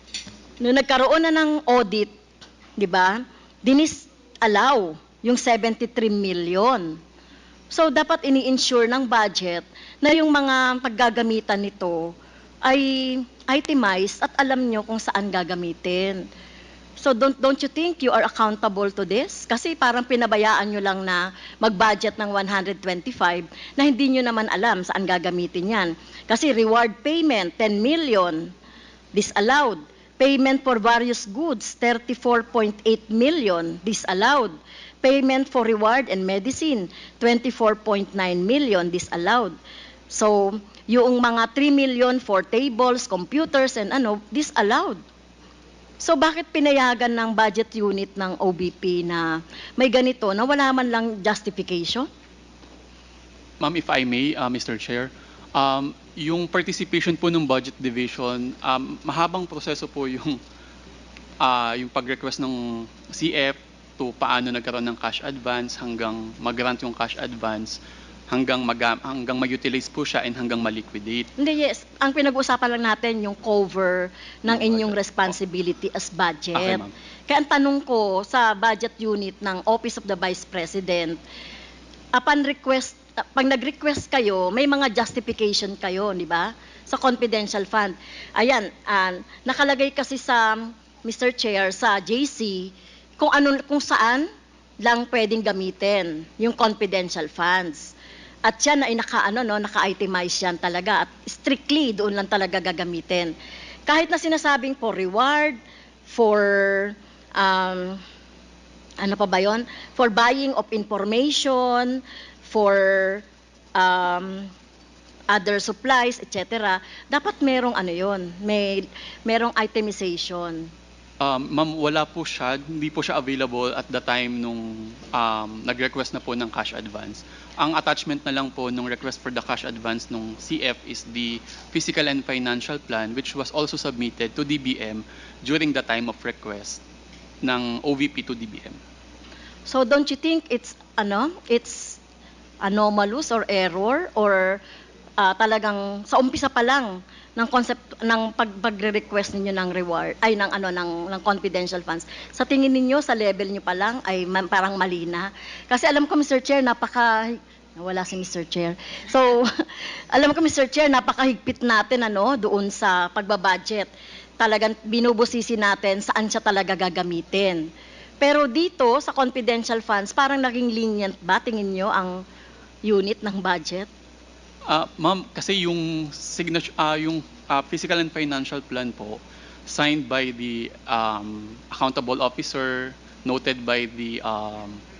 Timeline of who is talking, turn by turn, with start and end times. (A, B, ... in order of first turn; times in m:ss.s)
0:00.6-0:02.1 A
0:02.8-0:07.0 A
0:07.7-0:16.3 A
0:17.0-0:28.5 A
0:29.1-0:39.6 A
0:40.1-0:45.0 A
0:46.0-0:52.1 A
0:53.6-1:00.4 B
1:01.4-1:07.8 B
1:08.3-1:11.3 B
1:11.4-1:21.2 A
1:14.5-1:15.3 B
1:16.6-1:16.9 B
1:22.1-1:34.3 A
1:34.8-1:43.3 A
1:43.9-1:48.0 A
1:49.0-1:53.2 A
1:53.8-1:54.5 A
1:55.3-2:00.7 A
2:01.2-2:16.8 B
2:17.4-2:18.8 B
2:19.7-2:22.0 A
2:22.6-2:24.6 A
2:25.2-2:39.5 A
2:40.1-2:47.7 A
2:48.2-2:52.2 A
2:52.8-2:53.9 A
2:54.7-3:04.8 B